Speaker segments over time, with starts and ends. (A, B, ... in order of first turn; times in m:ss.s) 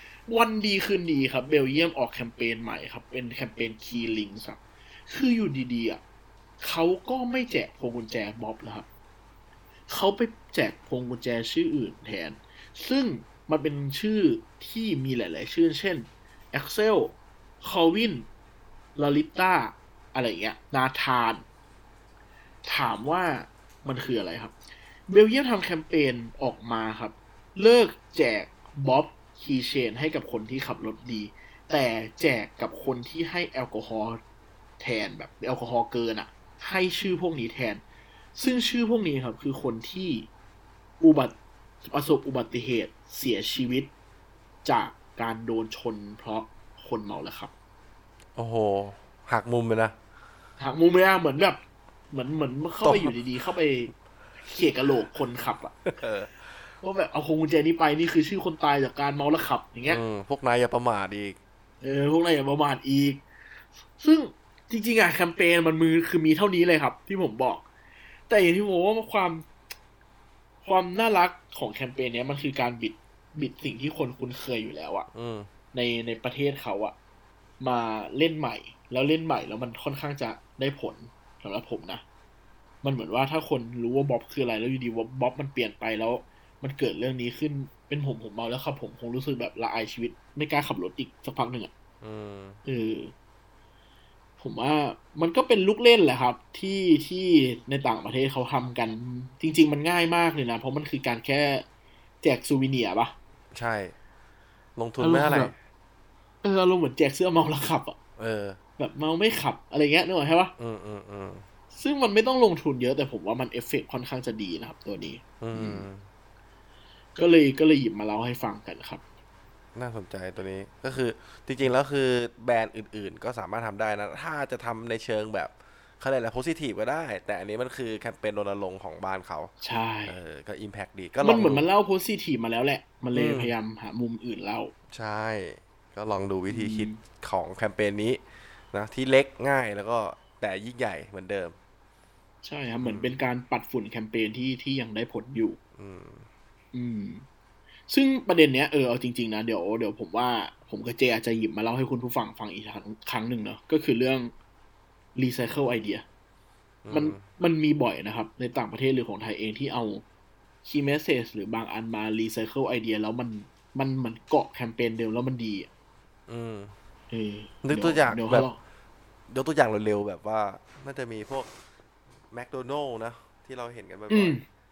0:00.3-0:06.0 A
0:06.6-0:08.9 A
0:09.9-0:18.3 A
0:19.0-0:21.4 A
0:22.6-0:24.5 A
0:25.1-0:34.2 A
0:34.8-0:37.8 A
0:38.4-0:40.3 A
0:41.0-0:43.9 A
0:44.6-0:47.5 A
0:48.4-0:50.0 B
0:50.6-0:53.9 A
0:52.8-0:53.2 B
0:54.4-0:55.8 A
0:55.9-0:56.4 B
0:56.8-1:00.0 A
0:59.9-1:01.4 B
1:01.8-1:03.2 A
1:04.0-1:07.7 A
1:08.3-1:09.5 A
1:10.6-1:15.1 A
1:15.1-1:15.5 B
1:15.7-1:17.0 A
1:17.6-1:22.0 A
1:22.8-1:31.7 A
1:32.0-1:32.6 B
1:32.7-1:33.1 A
1:34.4-1:41.6 A
1:42.2-1:43.2 A
1:43.5-1:44.0 B
1:44.8-1:45.6 B
1:45.0-1:45.5 A
1:46.4-1:48.0 A
1:48.2-1:48.6 B
1:48.8-1:50.5 A
1:50.6-1:51.4 B
1:51.7-1:55.9 A
1:55.4-1:56.1 B
1:57.2-1:59.0 A
1:59.8-2:09.5 B
2:09.6-2:10.2 A
2:10.1-2:11.7 B
2:11.2-2:14.7 A
2:13.1-2:13.5 B
2:14.9-2:18.2 B
2:16.5-2:17.0 A
2:18.7-2:21.6 B
2:22.4-2:25.6 A
2:22.8-2:23.2 B
2:25.8-2:26.3 B
2:26.7-2:27.2 A
2:27.9-2:34.3 A
2:35.2-2:36.0 A
2:36.8-2:37.2 B
2:36.9-2:40.0 A
2:40.6-2:45.7 A
2:46.3-2:46.7 B
2:47.1-2:48.6 A
2:47.6-2:48.5 B
2:49.3-2:51.5 B
2:52.3-2:54.4 B
2:54.1-2:54.4 A